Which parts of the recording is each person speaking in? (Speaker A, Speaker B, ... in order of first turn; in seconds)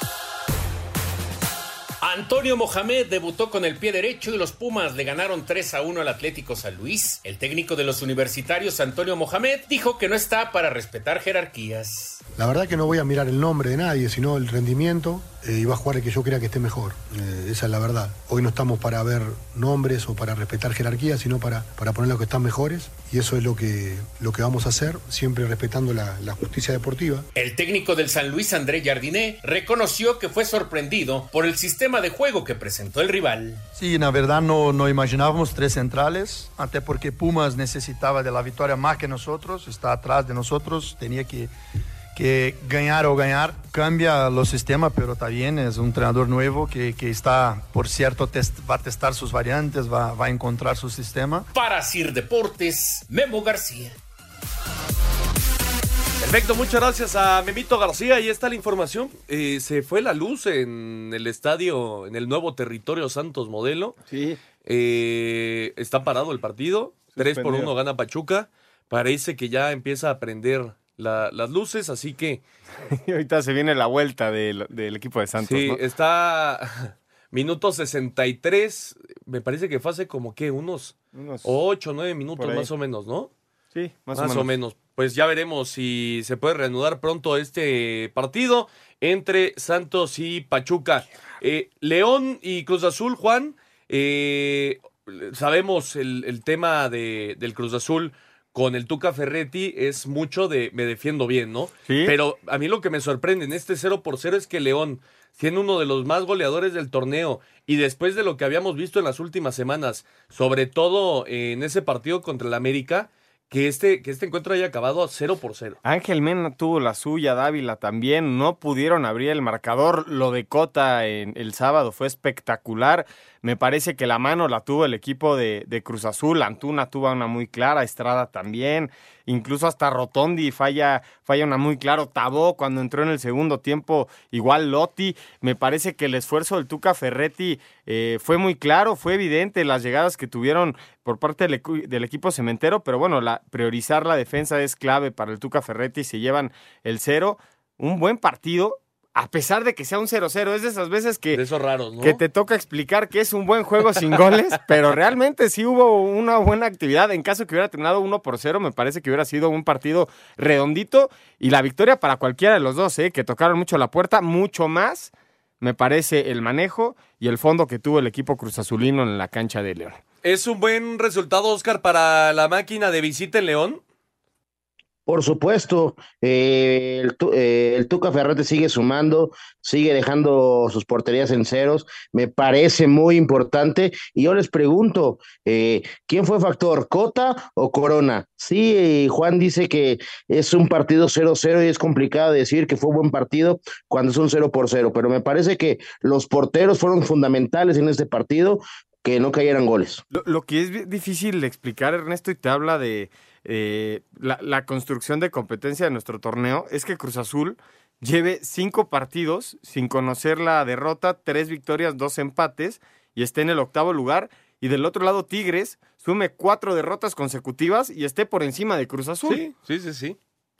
Speaker A: 2.0-12.2, 27.4-33.6, 51.5-54.0
Speaker B: 12.4-27.3
Speaker C: 33.8-41.5, 42.1-51.5
Speaker D: 56.2-64.0, 64.6-72.4, 75.4-83.3, 84.1-115.8, 151.3-152.2, 170.2-173.8, 219.3-220.2
Speaker E: 64.1-64.4, 67.2-67.7, 72.9-75.8, 81.1-81.5, 82.4-82.7, 83.7-84.5, 101.9-102.2, 115.8-151.4, 152.0-170.0, 200.1-219.4
Speaker F: 175.1-200.0